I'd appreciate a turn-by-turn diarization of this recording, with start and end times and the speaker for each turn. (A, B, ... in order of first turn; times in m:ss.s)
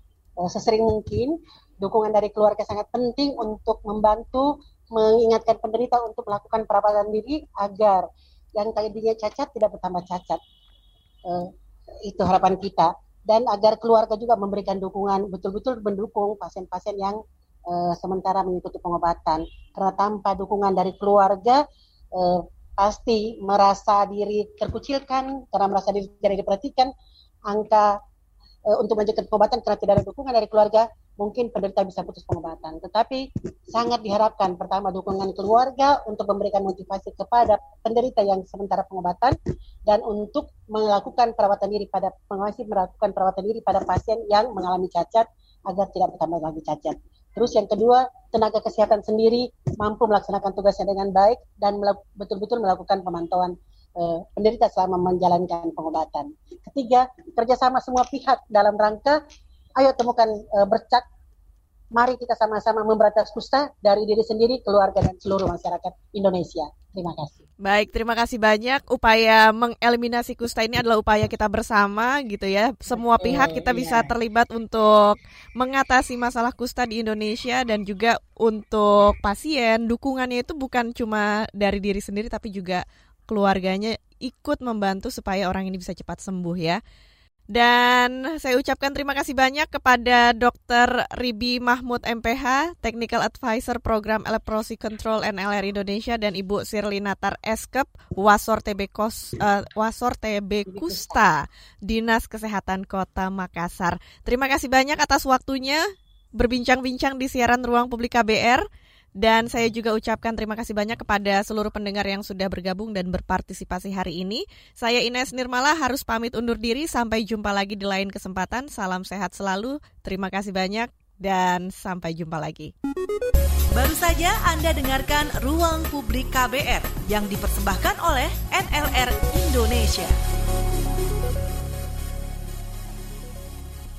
0:00.4-0:08.0 A
0:08.6-0:10.4 A
0:12.1-0:21.6 A
0:22.1-0:26.9 A
0:27.5-0:27.9 A
0:28.7-0:33.2 A
0:33.7-0:39.3 A
0:39.9-0:59.2 A
0:59.8-1:01.0 A
1:01.9-1:07.4 A
1:07.6-1:26.8 B
1:13.0-1:14.1 A
1:27.5-1:45.8 B
1:40.7-1:41.0 A
1:46.4-1:48.6 B
1:49.2-2:02.7 B
2:03.7-2:10.2 C